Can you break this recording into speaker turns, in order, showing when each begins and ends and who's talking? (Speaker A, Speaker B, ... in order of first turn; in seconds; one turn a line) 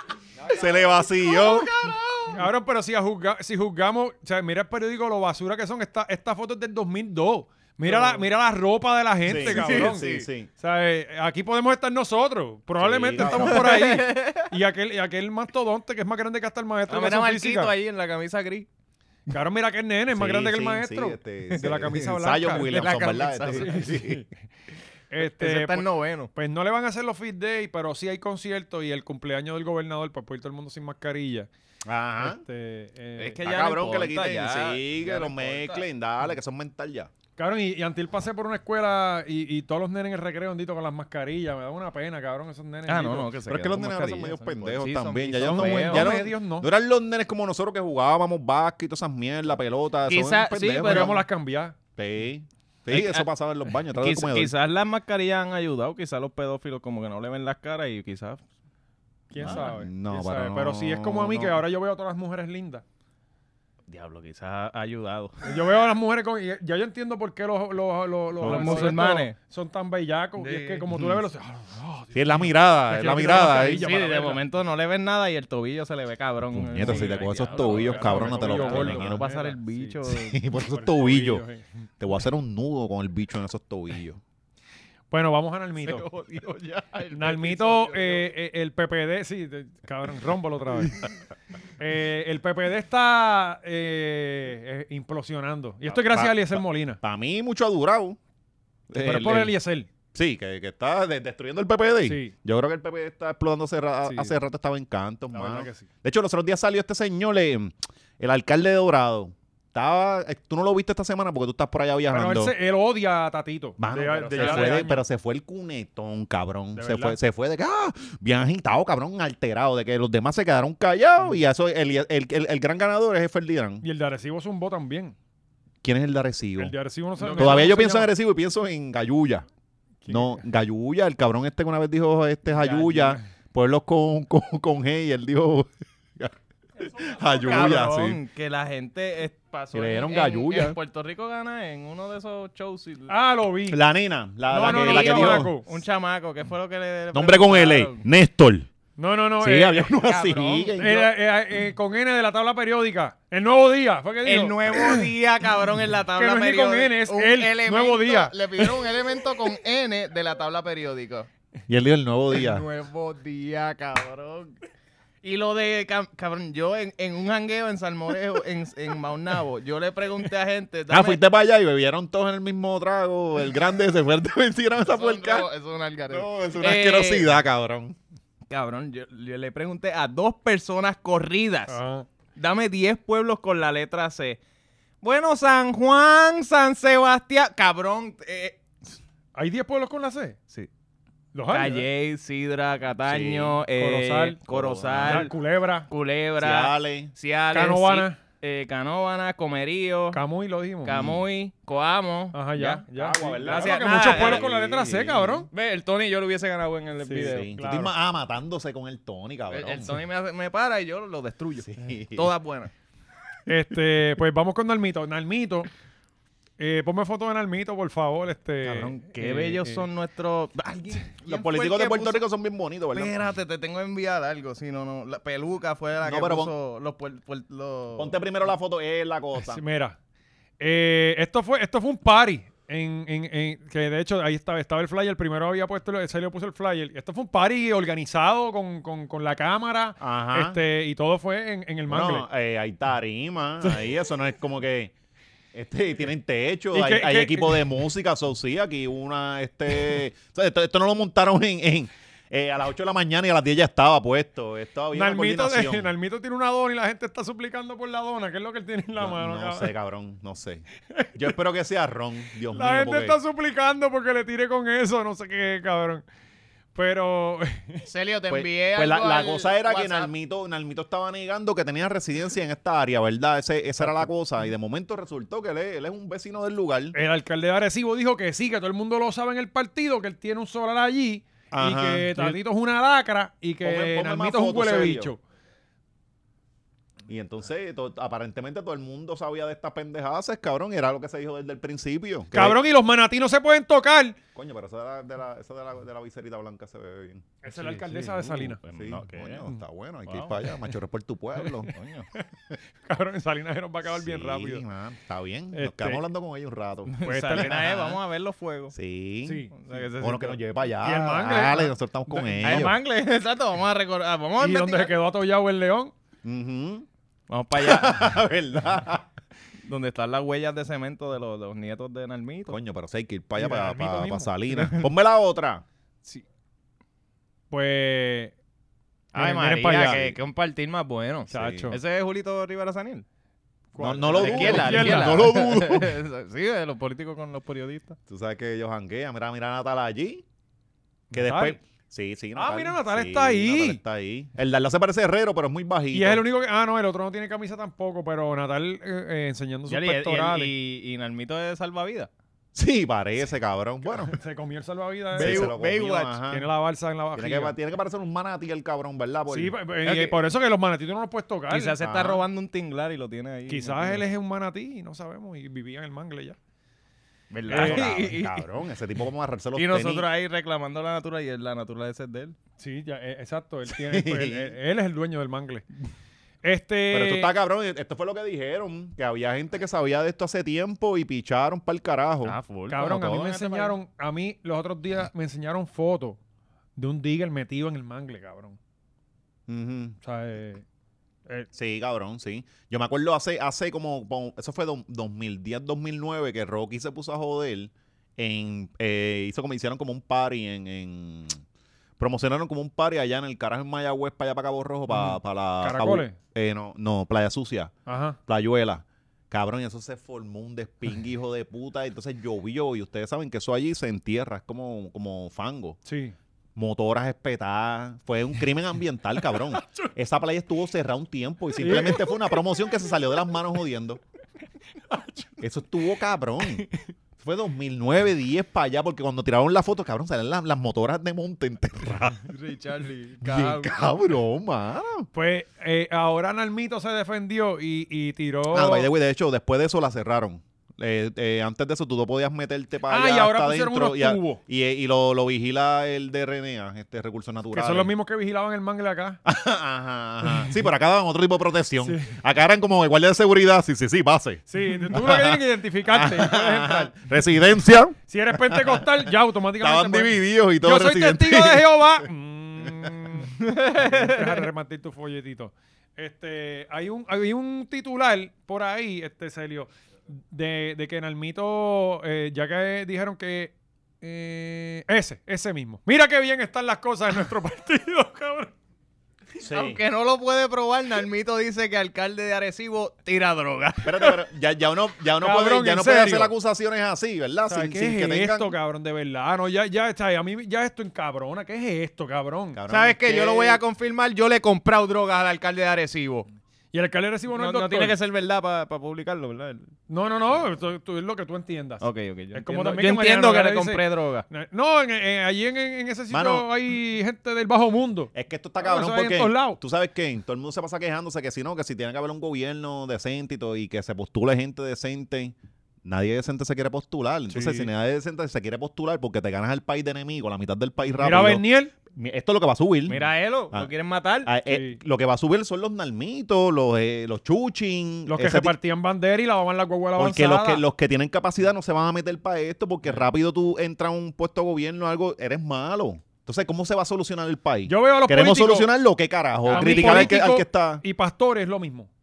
Speaker A: 0.5-1.7
Speaker B: 1.0-2.4
Speaker C: 2.3-17.7
Speaker B: 7.8-8.2
Speaker A: 9.3-10.5
Speaker B: 9.4-10.3
Speaker A: 12.8-13.8
Speaker B: 13.2-14.5
Speaker B: 16.9-18.7
Speaker C: 19.3-22.7
Speaker A: 20.1-24.2
Speaker B: 22.5-23.9
Speaker C: 23.5-24.3
Speaker C: 25.1-31.5
Speaker B: 25.2-26.3
Speaker A: 31.9-32.4
Speaker C: 32.2-33.4
Speaker B: 33.2-35.9
Speaker A: 33.4-37.1
Speaker C: 37.4-43.3
Speaker B: 42.9-46.1
Speaker A: 43.5-51.2
Speaker C: 45.4-46.7
Speaker B: 50.1-51.1
Speaker C: 50.8-51.8
Speaker A: 52.0-54.5
Speaker B: 52.9-53.3
Speaker B: 53.9-58.4
Speaker C: 59.3-62.8
Speaker A: 59.4-61.6
Speaker B: 59.4-59.7
Speaker B: 63.9-65.4
Speaker C: 65.4-74.4
Speaker A: 68.4-69.0
Speaker B: 68.4-69.3
Speaker B: 70.4-70.8
Speaker A: 70.9-71.2
Speaker A: 72.1-73.9
Speaker B: 73.8-80.4
Speaker A: 76.5-79.2
Speaker C: 76.8-80.0
Speaker A: 80.1-81.4
Speaker C: 80.5-81.7
Speaker A: 82.0-84.2
Speaker C: 85.1-86.0
Speaker B: 85.8-88.3
Speaker C: 87.1-91.1
Speaker C: 91.8-97.0
Speaker A: 95.9-98.2
Speaker A: 98.9-99.5
Speaker C: 99.0-99.9
Speaker A: 100.1-112.5
Speaker C: 102.1-102.3
Speaker C: 104.1-104.3
Speaker C: 105.3-105.9
Speaker C: 112.1-115.0
Speaker A: 113.8-123.8
Speaker B: 114.3-114.9
Speaker C: 116.8-117.2
Speaker C: 123.8-125.2
Speaker A: 125.8-126.7
Speaker C: 126.6-128.1
Speaker B: 127.2-127.7
Speaker A: 127.3-129.5
Speaker C: 130.0-130.4
Speaker A: 130.1-138.2
Speaker B: 132.6-133.2
Speaker B: 137.3-143.2
Speaker A: 139.7-140.8
Speaker C: 143.1-143.8
Speaker A: 143.7-145.5
Speaker C: 144.5-145.7
Speaker B: 144.6-148.1
Speaker A: 147.1-148.7
Speaker C: 149.0-150.0
Speaker A: 149.4-151.1
Speaker B: 150.0-150.7
Speaker C: 150.8-155.1
Speaker B: 154.2-161.3
Speaker C: 156.2-158.7
Speaker A: 161.7-162.7
Speaker B: 162.3-164.6
Speaker B: 165.2-171.2
Speaker A: 170.9-175.5
Speaker B: 174.8-177.3
Speaker A: 176.1-178.0
Speaker B: 178.5-181.8
Speaker C: 181.7-182.1
Speaker B: 182.4-184.4
Speaker B: 185.0-188.6
Speaker C: 189.3-190.4
Speaker C: 191.3-191.9
Speaker B: 191.5-195.3
Speaker A: 193.1-193.6
Speaker C: 193.7-194.4
Speaker A: 194.5-195.3
Speaker C: 195.0-195.9
Speaker B: 195.9-200.2
Speaker A: 196.4-197.1
Speaker C: 197.5-198.2
Speaker C: 200.1-201.0
Speaker B: 200.8-202.8
Speaker A: 200.9-201.2
Speaker C: 202.3-205.5
Speaker A: 202.9-205.5
Speaker B: 203.4-204.5
Speaker B: 205.5-207.5
Speaker C: 207.1-207.9
Speaker A: 207.2-210.0
Speaker B: 209.5-212.7
Speaker A: 211.7-212.3
Speaker C: 213.5-215.7
Speaker C: 216.6-219.9
Speaker B: 218.6-222.2
Speaker A: 221.2-223.1
Speaker B: 222.9-228.2
Speaker A: 226.0-226.5
Speaker A: 228.0-229.6
Speaker C: 229.4-230.0
Speaker C: 230.6-242.3
Speaker A: 240.0-240.6
Speaker A: 241.9-244.9
Speaker A: 245.5-255.9
Speaker C: 246.7-247.7
Speaker C: 254.9-259.7
Speaker A: 259.0-263.2
Speaker C: 262.5-266.0
Speaker C: 266.8-267.9
Speaker B: 267.9-270.1
Speaker A: 268.3-277.0
Speaker C: 273.8-274.1
Speaker C: 276.9-285.2
Speaker A: 281.5-282.4
Speaker A: 283.6-285.1
Speaker A: 287.1-292.6
Speaker C: 292.3-294.2
Speaker A: 294.4-297.2
Speaker C: 297.4-298.6
Speaker B: 297.5-299.5
Speaker A: 298.7-301.7
Speaker B: 300.1-300.5
Speaker B: 301.7-302.1
Speaker C: 302.8-304.6
Speaker A: 303.9-307.6
Speaker C: 305.5-306.0
Speaker B: 306.9-308.8
Speaker C: 307.0-308.0
Speaker A: 308.7-309.5
Speaker C: 309.2-309.7
Speaker B: 309.5-310.4
Speaker A: 310.0-312.8
Speaker C: 310.8-312.7
Speaker B: 312.4-314.9
Speaker C: 314.4-315.9
Speaker A: 316.2-316.9
Speaker B: 317.3-318.2
Speaker A: 317.6-319.1
Speaker B: 319.7-322.6
Speaker A: 322.5-325.6
Speaker C: 323.4-324.3
Speaker B: 324.5-324.9
Speaker C: 327.5-328.3
Speaker B: 329.1-333.1
Speaker C: 329.1-330.1
Speaker C: 331.3-331.8
Speaker A: 331.3-331.7
Speaker C: 333.7-335.3
Speaker A: 333.8-336.0
Speaker B: 334.1-338.0
Speaker A: 338.1-340.2
Speaker C: 341.1-341.6
Speaker A: 341.1-346.2
Speaker C: 342.4-343.8
Speaker C: 345.9-350.5
Speaker B: 349.7-352.1
Speaker A: 352.6-354.2
Speaker C: 353.9-355.5
Speaker B: 355.2-356.2
Speaker A: 355.2-356.5
Speaker C: 356.3-357.6
Speaker A: 357.1-359.6
Speaker C: 359.3-361.8
Speaker B: 359.8-360.2
Speaker B: 361.5-364.0
Speaker A: 361.8-362.2
Speaker C: 363.5-366.4
Speaker B: 367.3-368.4
Speaker A: 367.5-370.1
Speaker C: 367.5-368.1
Speaker B: 369.6-372.4
Speaker C: 372.6-375.7
Speaker A: 373.7-374.6
Speaker C: 376.4-377.3
Speaker A: 376.9-382.4
Speaker B: 382.2-383.8
Speaker C: 382.7-386.2
Speaker C: 386.8-388.6
Speaker A: 389.5-390.0
Speaker C: 390.0-390.6
Speaker A: 391.5-401.4
Speaker A: 402.0-407.7
Speaker C: 404.9-406.2
Speaker C: 407.9-408.2
Speaker A: 408.3-415.8
Speaker C: 415.9-416.1
Speaker A: 416.6-424.0
Speaker C: 419.5-419.9
Speaker C: 421.6-422.4
Speaker C: 424.9-425.3
Speaker A: 425.4-426.7
Speaker A: 427.2-432.3
Speaker B: 432.3-433.7
Speaker A: 433.2-435.1
Speaker C: 435.1-438.9
Speaker A: 438.5-447.9
Speaker C: 442.9-444.4
Speaker C: 447.5-449.2
Speaker A: 449.2-462.0
Speaker C: 450.2-450.5
Speaker C: 451.8-452.2
Speaker C: 454.5-456.9
Speaker C: 458.1-469.7
Speaker B: 463.4-464.4
Speaker C: 470.3-478.5
Speaker A: 479.4-479.8
Speaker B: 479.5-484.2
Speaker A: 483.8-488.6
Speaker C: 485.2-486.3
Speaker C: 487.5-492.6
Speaker A: 492.5-493.6
Speaker B: 492.7-496.3
Speaker C: 496.7-498.0
Speaker B: 497.3-499.7
Speaker C: 499.9-509.6
Speaker B: 501.8-504.3
Speaker A: 506.1-506.5
Speaker A: 508.1-523.0
Speaker C: 517.3-517.7
Speaker C: 521.0-521.7
Speaker B: 522.9-524.3
Speaker A: 524.2-528.5
Speaker C: 524.5-524.8
Speaker C: 528.1-530.6
Speaker A: 530.0-540.8
Speaker C: 537.7-538.7
Speaker B: 539.5-540.2
Speaker C: 539.5-541.9